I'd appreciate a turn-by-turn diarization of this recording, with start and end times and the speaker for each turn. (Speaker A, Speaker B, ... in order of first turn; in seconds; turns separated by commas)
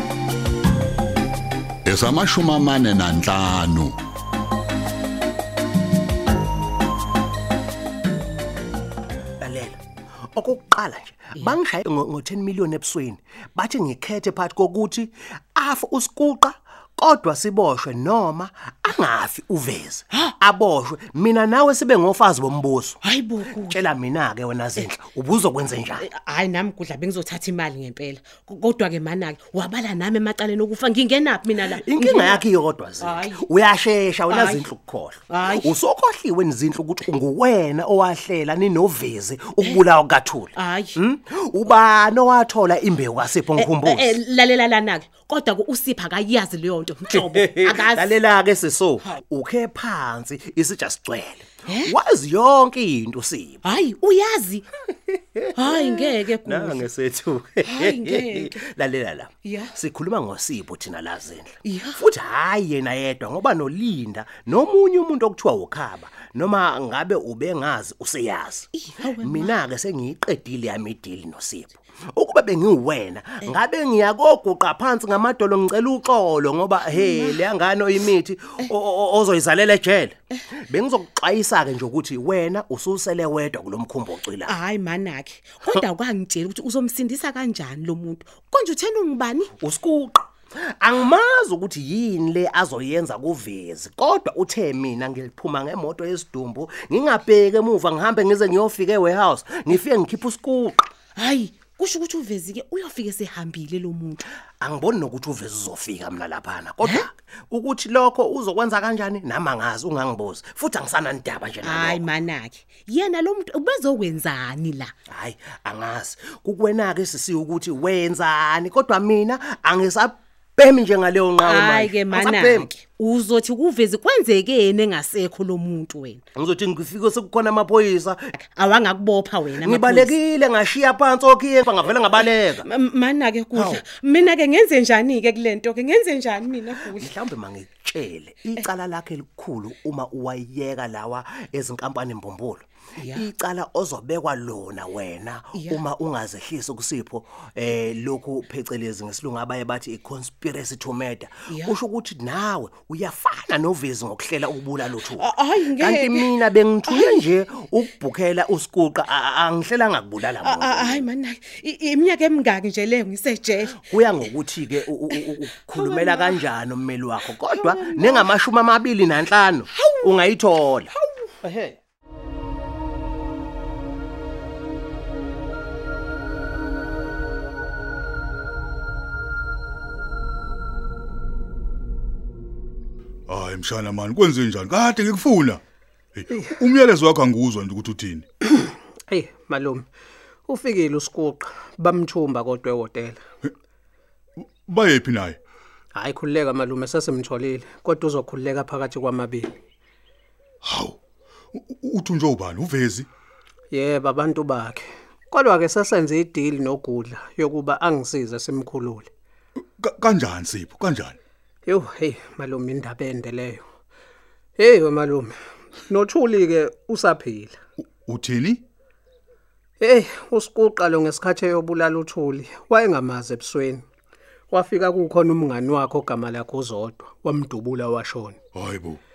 Speaker A: 1.9-4.0, Speaker B: 9.4-9.8, Speaker B: 10.3-26.1, Speaker C: 23.0-23.8, Speaker C: 26.0-32.4, Speaker B: 31.5-44.2, Speaker C: 33.0-33.4, Speaker C: 34.3-34.6, Speaker C: 35.3-35.7, Speaker C: 40.6-40.9, Speaker C: 43.6-48.1, Speaker B: 47.1-53.7, Speaker C: 53.7-54.7, Speaker B: 55.4-84.6, Speaker C: 55.6-56.9, Speaker C: 57.7-58.5, Speaker C: 59.4-59.7, Speaker C: 61.6-62.0, Speaker C: 68.8-69.5, Speaker C: 76.9-77.4, Speaker C: 84.5-89.5, Speaker B: 89.6-100.8, Speaker C: 101.2-104.2, Speaker B: 104.6-112.1, Speaker C: 111.6-114.9, Speaker B: 115.1-122.7, Speaker C: 121.4-126.2, Speaker B: 126.4-128.3, Speaker C: 128.5-130.1, Speaker B: 129.6-132.7, Speaker C: 132.1-137.1, Speaker B: 133.5-133.8, Speaker B: 136.8-161.1, Speaker C: 155.0-156.3, Speaker C: 156.9-157.3, Speaker C: 160.4-163.8, Speaker B: 163.6-170.9, Speaker C: 165.7-166.3, Speaker C: 167.5-168.3, Speaker D: 171.4-171.7, Speaker E: 183.3-185.6, Speaker E: 186.2-188.3, Speaker D: 188.5-189.9, Speaker D: 190.5-193.2, Speaker E: 194.7-195.4, Speaker D: 195.9-199.5, Speaker E: 200.6-201.0, Speaker E: 201.5-203.1, Speaker D: 203.7-209.1, Speaker E: 209.8-211.2, Speaker D: 211.7-213.6, Speaker D: 214.6-217.6, Speaker E: 218.0-218.6, Speaker D: 219.8-223.8, Speaker D: 224.5-228.4, Speaker E: 228.6-229.0